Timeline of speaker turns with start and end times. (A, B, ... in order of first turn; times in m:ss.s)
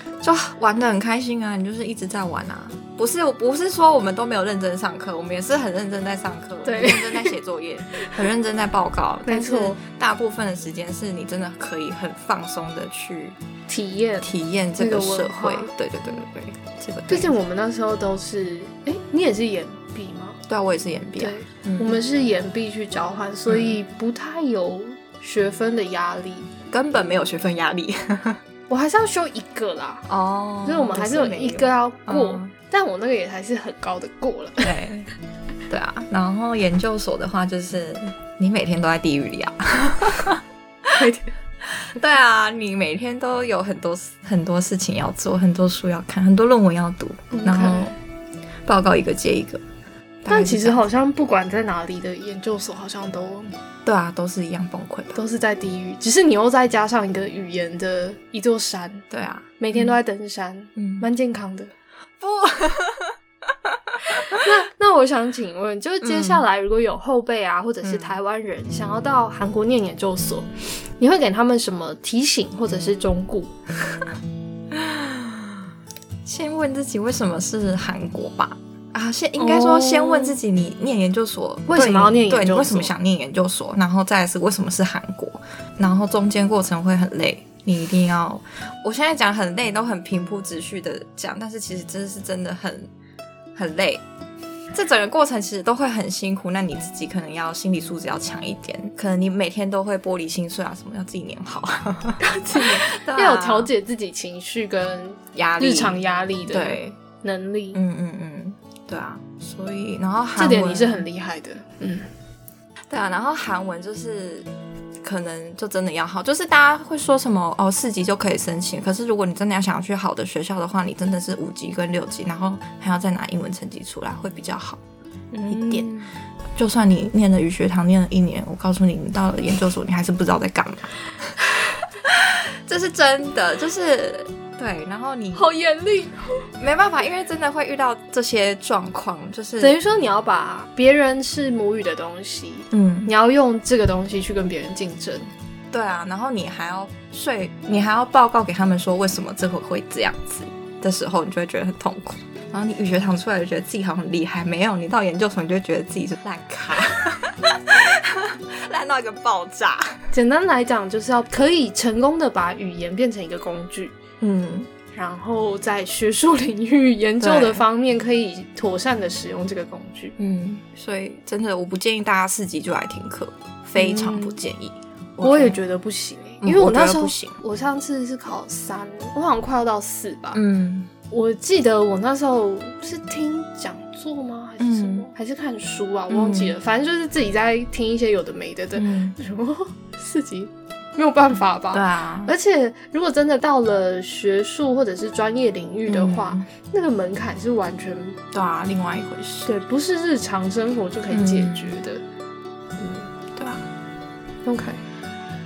0:00.2-0:13.4 A
0:06.6-0:07.3 B
0:09.2-0:09.8 B
0:13.7-0:15.7 B
0:14.2-0:17.3 A
0:17.1-0:20.4 B
0:20.5-0:22.0 A
0:21.2-0:26.5 B
0:23.5-0:23.8 A
0:26.7-0:28.4 A
0:28.7-0:30.0 B
0:30.1-0:32.5 A
0:30.6-0:34.7 B
0:34.6-0:35.1 A
0:35.7-0:40.9 A
0:40.9-0:41.3 B
0:41.7-0:47.9 A
0:47.3-0:47.9 B
0:48.6-0:49.6 A
0:50.2-0:50.8 A
0:50.3-0:53.5 B
0:53.8-0:55.2 A
0:55.1-0:59.0 B
0:59.1-0:59.9 A
0:59.6-1:01.7 B
1:00.8-1:01.0 A
1:02.2-1:03.1 A
1:03.7-1:04.4 A
1:04.2-1:13.5 B
1:06.0-1:06.4 A
1:07.8-1:08.2 A
1:14.7-1:15.6 A
1:16.2-1:32.9 A
1:19.4-1:20.4 B
1:21.7-1:22.9 B
1:33.5-1:34.0 A
1:34.7-1:43.7 A
1:42.2-1:47.8 B
1:45.3-1:47.0 A
1:47.7-1:51.0 A
1:50.4-1:52.1 B
1:52.9-1:54.5 A
1:55.0-2:04.8 A
2:05.3-2:06.1 B
2:05.5-2:05.9 A
2:06.6-2:11.3 A
2:12.1-2:15.5 A
2:15.3-2:16.5 B
2:16.6-2:19.8 A
2:19.6-2:25.3 B
2:22.7-2:23.1 A
2:25.7-2:40.0 A
2:40.1-2:43.9 B
2:44.2-2:44.7 A
2:44.9-2:50.1 B
2:47.2-2:47.6 A
2:50.2-2:55.6 A
2:53.8-2:54.4 B
2:55.2-3:00.4 B
2:56.4-2:57.4 A
3:00.3-3:00.9 A
3:01.1-3:18.2 B
3:04.6-3:05.1 A
3:06.1-3:06.6 A
3:08.7-3:09.2 A
3:11.7-3:12.3 A
3:15.9-3:16.5 A
3:18.3-3:19.5 A
3:19.4-3:22.0 B
3:21.1-3:21.8 A
3:22.8-3:23.6 A
3:24.4-3:24.8 B